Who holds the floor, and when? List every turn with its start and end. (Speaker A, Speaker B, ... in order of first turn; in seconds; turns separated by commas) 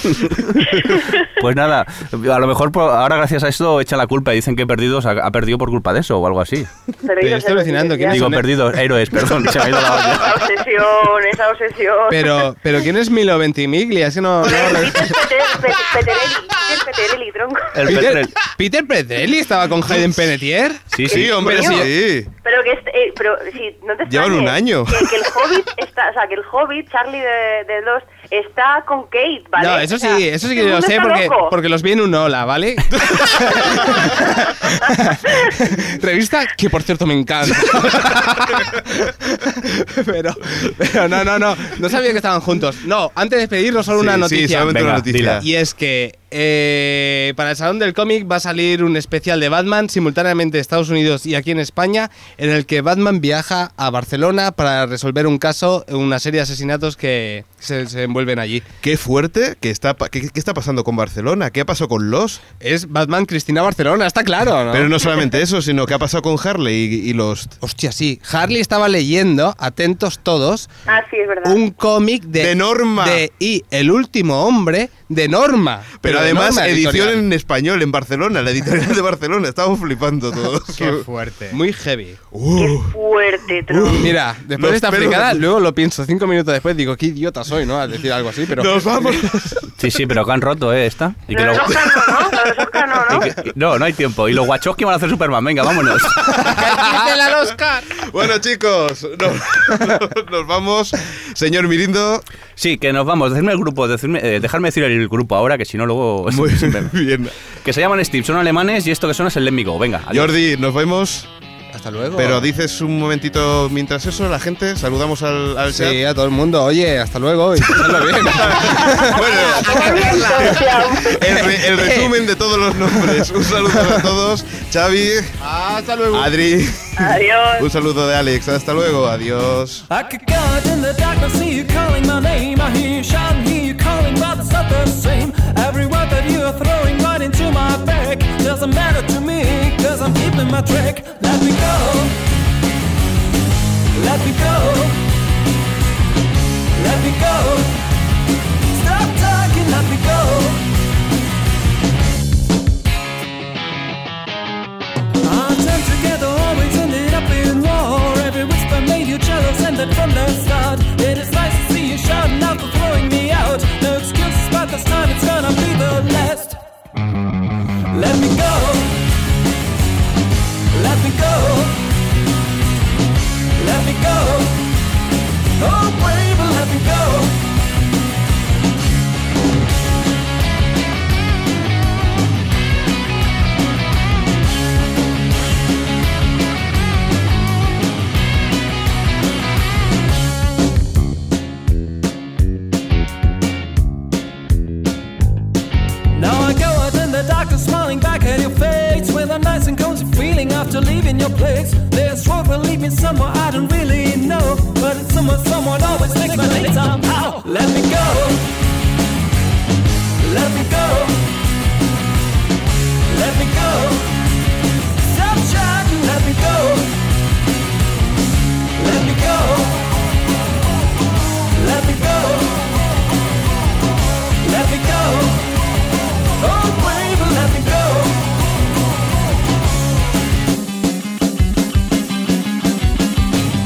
Speaker A: 0.1-0.7, Speaker B: 0.6-1.3, Speaker A: 1.2-6.7, Speaker B: 7.0-8.3, Speaker C: 7.2-8.4, Speaker A: 8.1-10.5, Speaker B: 9.9-12.5, Speaker C: 12.1-15.5, Speaker B: 14.4-17.9, Speaker A: 17.8-18.4, Speaker C: 17.9-21.9, Speaker A: 20.9-21.4, Speaker B: 21.0-31.6, Speaker D: 21.1-22.3, Speaker D: 24.1-25.6, Speaker C: 29.6-58.7, Speaker D: 33.1-33.7, Speaker D: 43.9-45.5, Speaker A: 44.7-45.4, Speaker D: 58.8-62.4, Speaker C: 62.6-65.1, Speaker D: 64.7-67.6, Speaker C: 67.6-70.7, Speaker B: 70.9-71.6, Speaker C: 71.4-77.2, Speaker D: 72.4-73.2, Speaker D: 76.0-81.0, Speaker E: 80.8-81.6, Speaker C: 81.5-82.2, Speaker D: 82.3-83.0, Speaker B: 82.5-84.2, Speaker D: 83.6-85.5, Speaker C: 84.0-89.3, Speaker D: 88.5-90.2, Speaker A: 89.8-91.8, Speaker B: 91.3-93.4, Speaker D: 91.5-93.2, Speaker A: 93.1-96.5, Speaker E: 96.3-97.9, Speaker D: 97.9-102.2, Speaker A: 102.6-106.9, Speaker D: 106.3-107.3, Speaker A: 107.6-110.3, Speaker D: 110.1-111.3, Speaker C: 111.7-112.5, Speaker D: 112.2-116.0, Speaker C: 115.7-120.6, Speaker D: 117.6-125.4, Speaker B: 119.3-121.2, Speaker E: 119.3-120.8, Speaker C: 121.5-122.1, Speaker C: 122.9-123.3, Speaker E: 125.4-126.3, Speaker D: 126.1-129.9, Speaker B: 127.0-127.7, Speaker F: 129.9-142.2, Speaker F: 143.9-145.0, Speaker F: 146.7-147.8, Speaker F: 148.7-150.7, Speaker F: 155.2-166.6, Speaker F: 167.9-169.0, Speaker F: 170.7-171.9, Speaker F: 173.6-174.8, Speaker F: 175.6-177.5, Speaker F: 196.1-208.5, Speaker F: 210.2-211.3, Speaker F: 213.1-214.2, Speaker F: 214.9-217.1, Speaker F: 218.8-220.0, Speaker F: 221.5-222.9, Speaker F: 224.4-225.6, Speaker F: 226.4-228.5